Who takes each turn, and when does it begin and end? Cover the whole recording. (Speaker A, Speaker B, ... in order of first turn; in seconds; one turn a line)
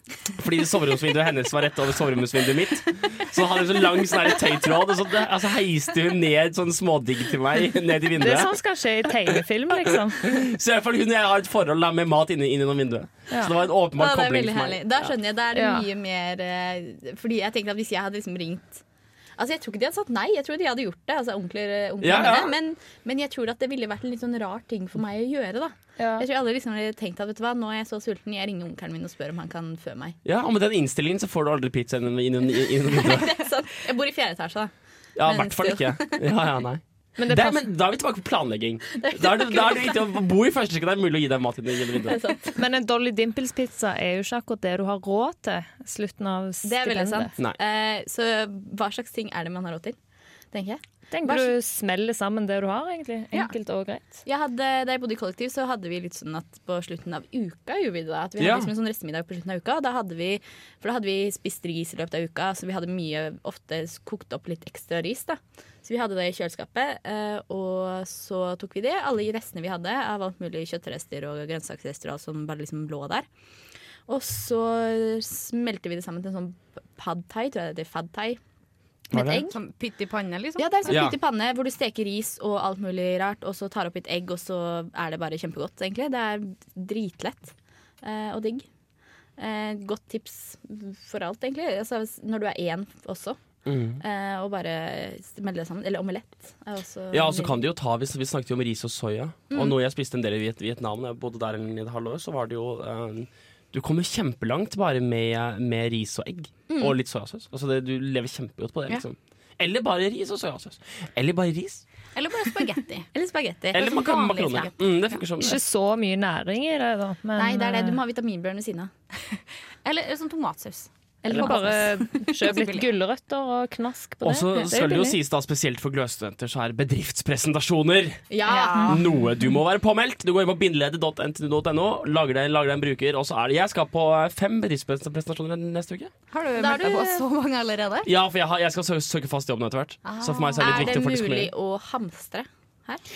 Speaker A: 0.2-8.5
Speaker B: 8.2-10.2
Speaker A: 9.8-15.1
Speaker C: 14.0-18.8
Speaker B: 15.5-15.8
Speaker C: 19.4-30.2
Speaker A: 22.0-22.5
Speaker B: 26.0-26.2
Speaker A: 30.2-33.4
Speaker C: 32.9-34.7
Speaker A: 35.1-42.2
Speaker C: 35.2-36.2
Speaker B: 37.2-37.6
Speaker C: 39.1-39.7
Speaker C: 42.1-42.6
Speaker B: 42.5-47.3
Speaker C: 46.6-50.0
Speaker C: 50.5-51.5
Speaker B: 51.1-54.2
Speaker C: 54.2-73.3
Speaker A: 58.4-58.7
Speaker C: 74.1-78.4
Speaker A: 79.1-79.5
Speaker D: 79.1-81.0
Speaker C: 80.6-88.7
Speaker A: 80.9-81.2
Speaker C: 89.4-93.4
Speaker A: 93.7-94.0
Speaker C: 94.0-97.5
Speaker A: 97.1-111.8
Speaker C: 99.5-99.8
Speaker C: 106.7-107.0
Speaker D: 112.1-113.1
Speaker C: 113.1-114.8
Speaker D: 113.7-115.2
Speaker A: 113.7-115.6
Speaker B: 115.4-118.0
Speaker C: 117.3-118.9
Speaker D: 119.8-121.6
Speaker C: 121.2-122.2
Speaker B: 121.2-125.2
Speaker D: 122.2-122.9
Speaker A: 124.2-128.2
Speaker C: 128.3-129.0
Speaker D: 128.5-129.0
Speaker A: 128.8-136.1
Speaker D: 136.3-138.1
Speaker C: 136.6-137.2
Speaker A: 138.0-141.5
Speaker D: 140.0-140.9
Speaker C: 140.6-143.0